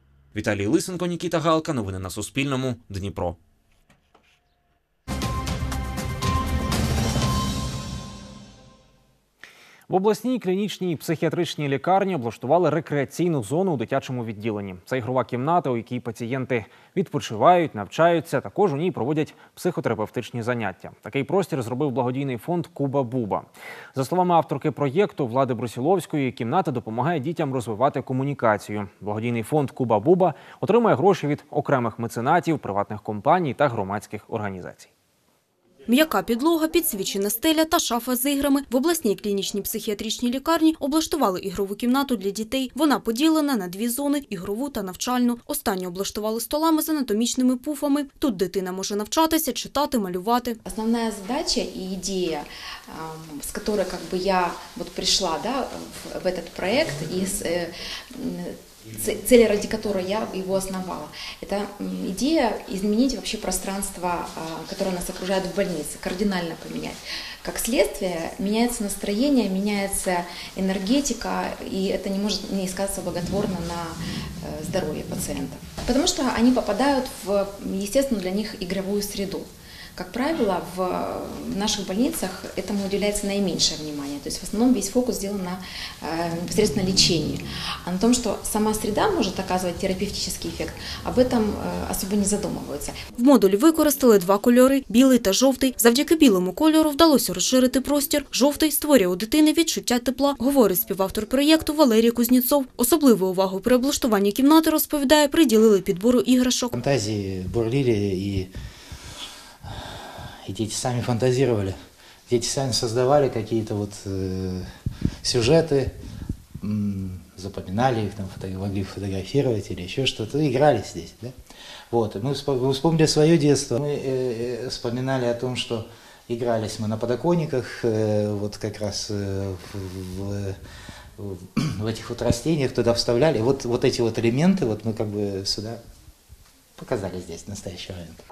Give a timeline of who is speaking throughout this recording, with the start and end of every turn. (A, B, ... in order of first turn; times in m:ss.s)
0:00.3-0:03.4 A
0:09.9-0:34.9 B
0:35.9-0:50.6 C
0:50.6-1:33.0 D
1:33.2-1:46.8 C
1:46.8-1:48.5 E
1:50.4-1:51.8 E
1:52.3-1:54.7 E
1:55.2-1:55.9 E
1:56.6-2:01.4 E
2:01.9-2:10.6 E
2:11.2-2:15.8 E
2:16.8-2:18.2 E